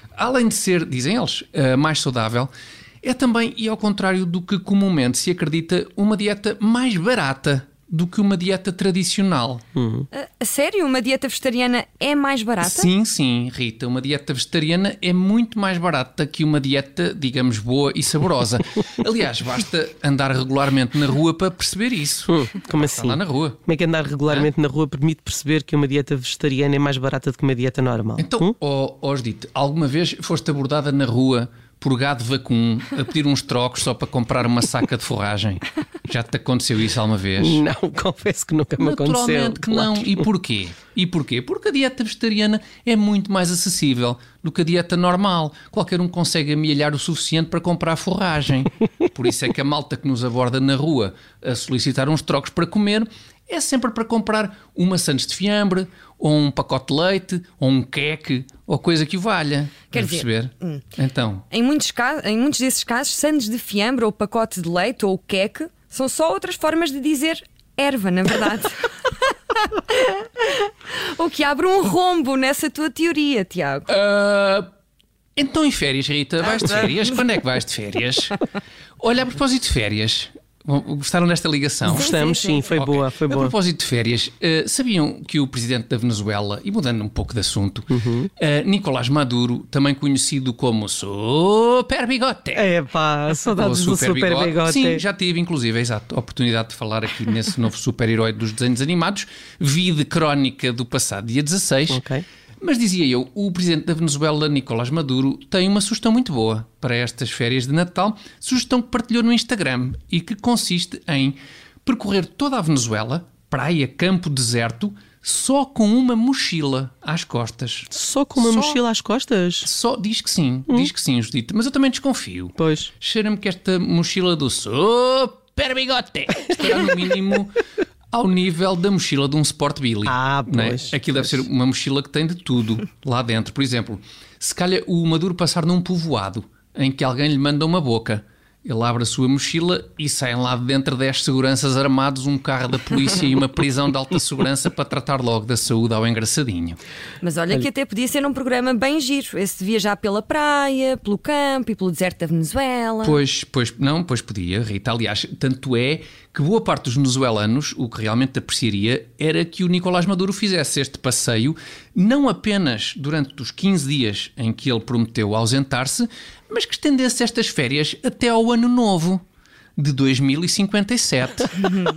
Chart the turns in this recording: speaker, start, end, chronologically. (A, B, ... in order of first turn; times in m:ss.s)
0:00.2-0:02.5 A
0:03.0-0:09.6 A
0:09.8-0:10.0 B
0:10.1-0:12.9 C
0:12.6-0:23.6 A
0:22.3-0:28.5 B
0:28.2-0:37.6 A
0:37.4-0:40.2 B
0:38.8-1:01.4 A
0:59.9-1:00.8 C
1:01.5-1:09.0 C
1:09.5-1:13.9 C
1:13.9-1:14.7 A
1:15.4-1:18.4 A
1:19.0-1:22.1 A
1:21.8-1:23.5 B
1:21.9-1:22.7 C
1:22.7-1:32.7 A
1:27.9-1:28.3 B
1:32.5-1:35.0 B
1:33.5-1:42.0 A
1:41.9-1:42.2 B
1:42.6-1:58.8 A
1:57.9-1:59.7 B
1:59.6-2:07.6 A
2:02.6-2:02.9 B
2:08.1-2:26.8 A
2:10.0-2:11.4 B
2:27.2-2:33.2 C
2:33.0-2:49.2 A
2:49.8-2:51.6 A